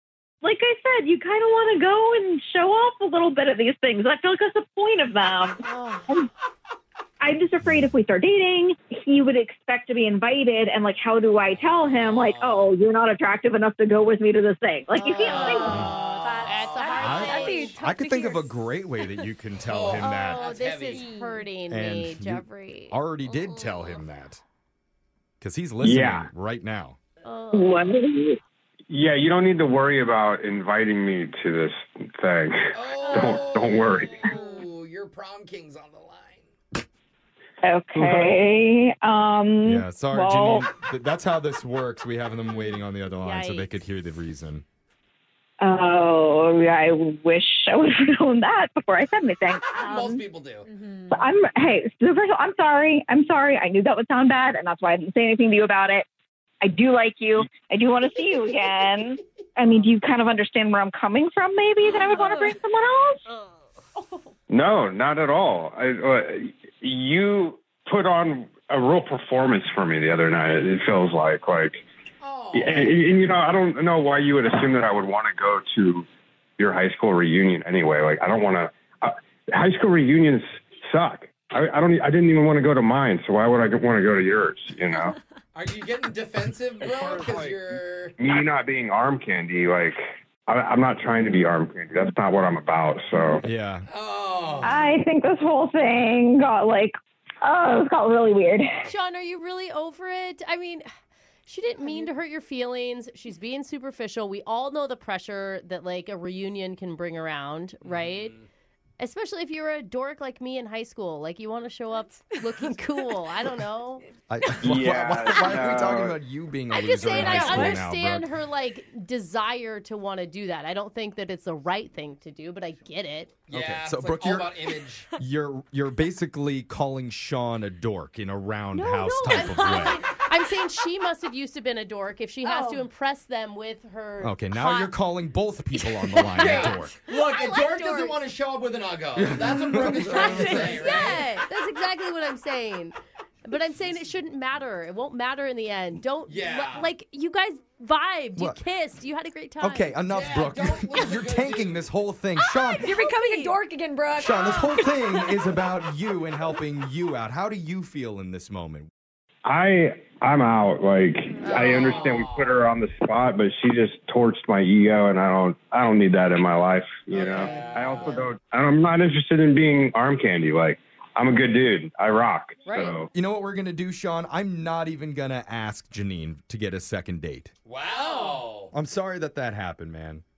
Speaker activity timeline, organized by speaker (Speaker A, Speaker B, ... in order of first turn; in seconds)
Speaker A: 0.4-6.3, 7.2-15.8, 27.5-28.4, 37.6-40.7, 45.6-50.2, 51.1-56.1, 56.6-63.2, 94.6-98.9
Speaker B: 5.7-6.1, 14.9-17.9, 20.0-23.0, 27.2-27.9, 43.2-43.8, 98.8-100.9, 101.5-108.4, 109.0-114.1, 116.7-123.3, 128.7-135.0, 135.8-138.2, 139.6-150.0, 152.7-153.6, 161.4-161.9, 167.3-168.1, 172.7-173.0
Speaker C: 11.5-12.8, 15.8-17.2, 19.6-21.1, 32.7-36.8, 49.7-50.7, 72.2-73.0, 85.5-88.2, 93.9-94.8, 107.8-108.4, 123.5-125.1, 136.3-141.3, 146.3-146.9, 150.1-151.9, 161.5-162.6, 167.1-168.3, 177.7-178.7
Speaker D: 15.4-18.5, 20.9-21.4, 33.1-33.4, 34.3-34.6, 50.6-51.2, 61.8-62.6, 117.2-117.7, 132.4-132.9, 140.4-140.8, 152.8-155.5, 178.0-178.4
Speaker E: 16.9-20.5, 21.7-24.4, 25.4-27.0, 39.6-44.6, 93.4-93.9, 114.3-118.3, 123.5-130.0, 134.2-137.0, 139.2-140.8, 149.6-152.9, 154.2-158.9, 173.1-177.5, 178.7-180.2
Speaker F: 25.8-26.3, 28.9-34.3, 38.0-38.4, 64.5-71.8, 72.5-76.1, 76.6-85.2, 86.9-87.5, 88.2-93.5, 114.6-116.2, 159.4-173.1